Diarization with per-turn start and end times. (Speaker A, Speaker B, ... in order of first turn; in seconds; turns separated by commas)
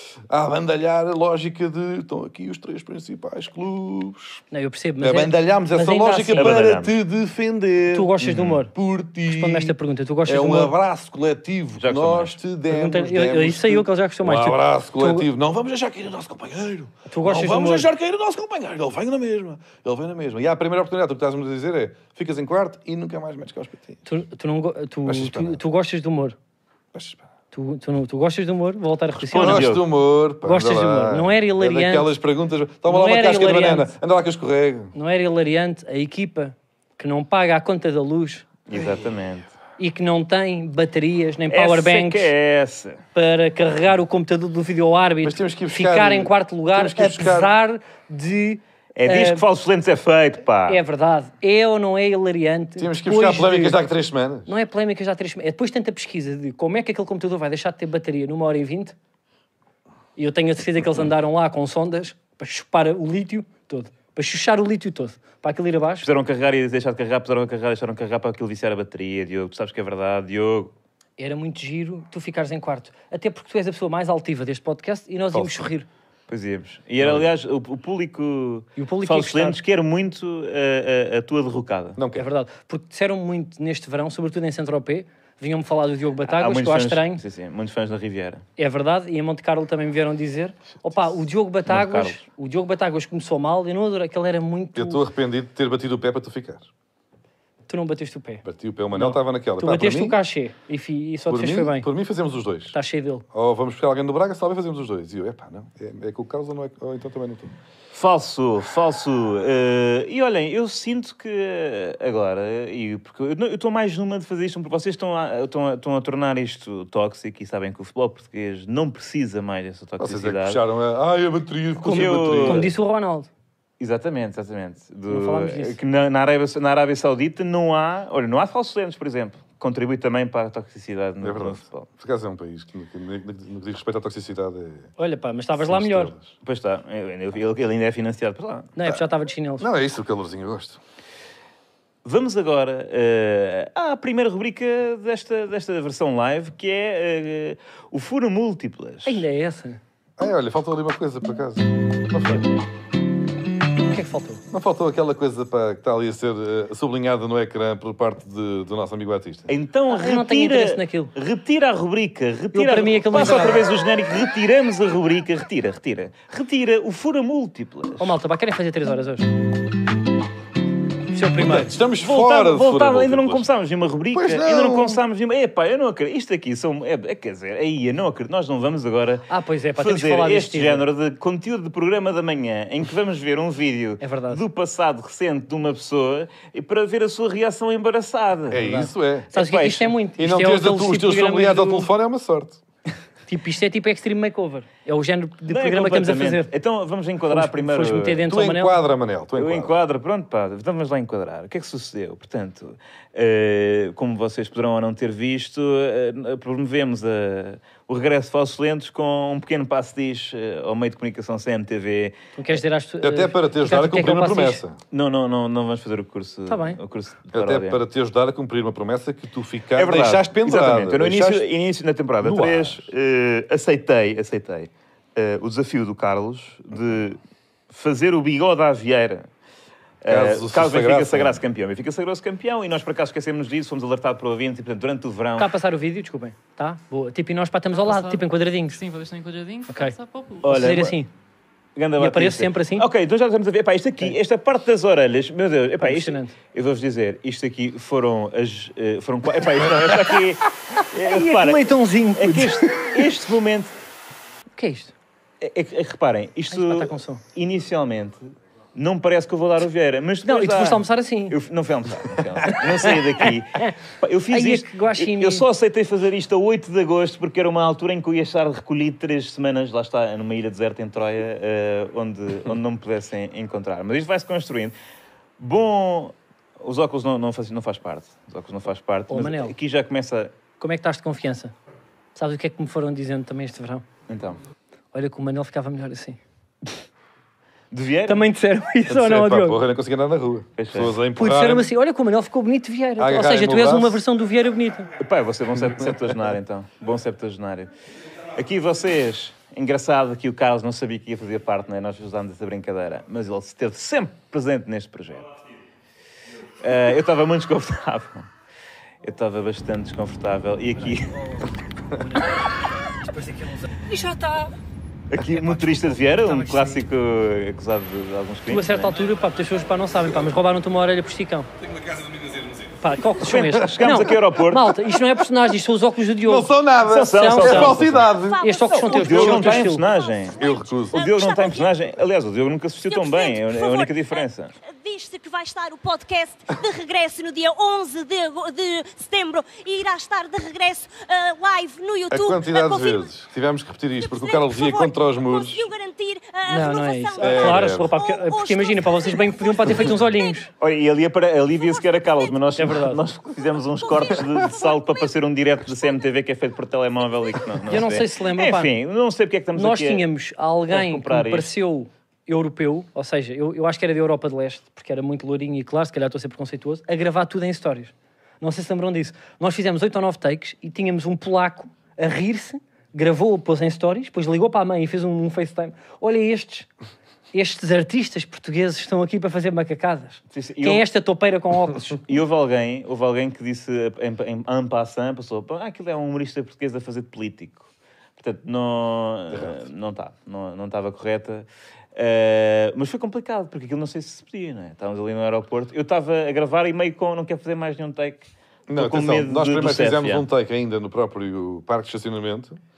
Speaker A: 0.3-4.4, Speaker B: 4.5-6.7, Speaker A: 5.0-9.7, Speaker C: 6.3-6.9, Speaker B: 7.9-8.7, Speaker C: 8.2-8.6, Speaker B: 9.3-10.7, Speaker A: 10.2-24.0, Speaker C: 11.8-12.4, Speaker B: 12.7-15.2, Speaker B: 17.1-17.9, Speaker B: 24.1-26.4, Speaker A: 25.0-25.6, Speaker A: 26.9-27.2, Speaker B: 27.5-29.7, Speaker C: 29.1-29.8, Speaker A: 29.4-34.9, Speaker B: 30.4-32.1, Speaker B: 32.9-33.9, Speaker B: 34.9-38.5, Speaker C: 38.7-39.5, Speaker B: 39.8-42.3, Speaker C: 41.5-43.0, Speaker B: 43.1-49.4, Speaker A: 45.2-47.5, Speaker C: 48.9-50.8, Speaker B: 50.7-53.8, Speaker A: 52.8-54.5, Speaker B: 54.5-58.9, Speaker B: 60.1-66.1, Speaker C: 66.0-70.7, Speaker B: 71.2-75.8, Speaker A: 75.3-75.6, Speaker C: 76.3-82.0, Speaker A: 77.0-77.3, Speaker B: 78.8-79.6, Speaker A: 82.0-82.2, Speaker B: 82.1-87.2, Speaker C: 86.2-88.4, Speaker B: 88.6-95.0, Speaker C: 91.7-92.2, Speaker A: 94.7-96.7, Speaker B: 97.7-101.9, Speaker A: 98.4-100.2, Speaker A: 101.3-102.8, Speaker B: 102.7-103.2, Speaker A: 103.3-107.5, Speaker C: 107.9-120.6, Speaker A: 120.0-122.7, Speaker C: 121.8-122.7, Speaker B: 122.4-123.3, Speaker C: 123.8-131.9, Speaker B: 125.1-125.8, Speaker A: 131.2-134.9, Speaker B: 135.0-136.1, Speaker A: 135.6-136.3, Speaker C: 136.4-138.7, Speaker B: 138.8-139.7, Speaker A: 139.6-140.8, Speaker C: 142.0-149.2, Speaker B: 149.1-149.8, Speaker A: 150.2-152.5, Speaker B: 153.9-154.4, Speaker A: 154.5-159.5, Speaker C: 159.5-168.1, Speaker B: 159.9-161.1, Speaker B: 162.5-163.7, Speaker B: 168.0-169.3, Speaker B: 171.1-171.7, Speaker A: 171.4-173.5, Speaker C: 172.0-179.3, Speaker A: 174.1-175.0, Speaker B: 179.3-180.8, Speaker C: 179.8-188.7, Speaker B: 184.0-184.4, Speaker A: 188.5-189.3, Speaker B: 188.6-191.9, Speaker C: 189.3-189.9, Speaker A: 190.2-192.6, Speaker B: 193.3-196.5, Speaker C: 195.5-198.2, Speaker B: 197.3-198.8, Speaker A: 198.2-199.7, Speaker C: 199.4-212.2, Speaker B: 212.3-214.6, Speaker A: 213.0-214.8, Speaker C: 214.9-217.8, Speaker B: 216.5-216.8, Speaker A: 217.3-221.5, Speaker C: 219.7-229.3, Speaker A: 222.2-222.9, Speaker C: 230.0-235.5, Speaker A: 230.1-231.4, Speaker B: 235.4-238.8, Speaker D: 237.7-240.6, Speaker B: 239.7-241.1, Speaker C: 240.4-241.0, Speaker C: 241.8-253.7, Speaker B: 242.0-242.9, Speaker B: 245.8-246.3, Speaker B: 251.0-253.1, Speaker B: 254.5-254.9, Speaker C: 255.4-274.7, Speaker B: 256.5-257.2, Speaker B: 260.2-261.4, Speaker B: 262.8-263.7, Speaker B: 264.3-265.4, Speaker C: 275.4-280.3, Speaker B: 279.1-279.5, Speaker B: 280.6-281.5, Speaker B: 282.1-283.8, Speaker C: 284.1-284.4, Speaker B: 284.9-286.2, Speaker C: 287.7-288.3, Speaker B: 288.1-289.6, Speaker A: 288.9-291.7, Speaker C: 290.6-291.0, Speaker B: 291.1-294.9, Speaker A: 293.0-294.0, Speaker C: 295.0-297.7, Speaker C: 298.3-305.4, Speaker C: 306.6-308.3, Speaker C: 309.0-311.1, Speaker B: 310.8-314.5, Speaker C: 315.1-318.9, Speaker B: 315.2-316.8, Speaker B: 318.5-321.5, Speaker A: 321.6-322.9, Speaker B: 322.8-327.9, Speaker C: 323.2-324.7, Speaker A: 326.2-328.5, Speaker C: 326.8-328.1, Speaker E: 327.9-331.8, Speaker B: 328.4-329.8, Speaker C: 328.8-330.4, Speaker A: 329.1-329.4, Speaker A: 330.4-331.1, Speaker C: 330.9-334.5, Speaker E: 332.8-343.1, Speaker A: 342.1-345.7, Speaker E: 344.0-350.4, Speaker B: 346.5-350.5, Speaker A: 347.2-347.9, Speaker C: 350.6-360.1, Speaker E: 351.5-352.4, Speaker B: 352.6-353.0, Speaker E: 353.8-355.2, Speaker E: 355.7-356.0, Speaker B: 357.6-358.7, Speaker B: 359.5-376.7, Speaker C: 360.7-361.5, Speaker B: 377.3-382.0, Speaker C: 380.3-380.9, Speaker C: 382.0-400.3, Speaker A: 389.3-389.6, Speaker A: 398.7-402.6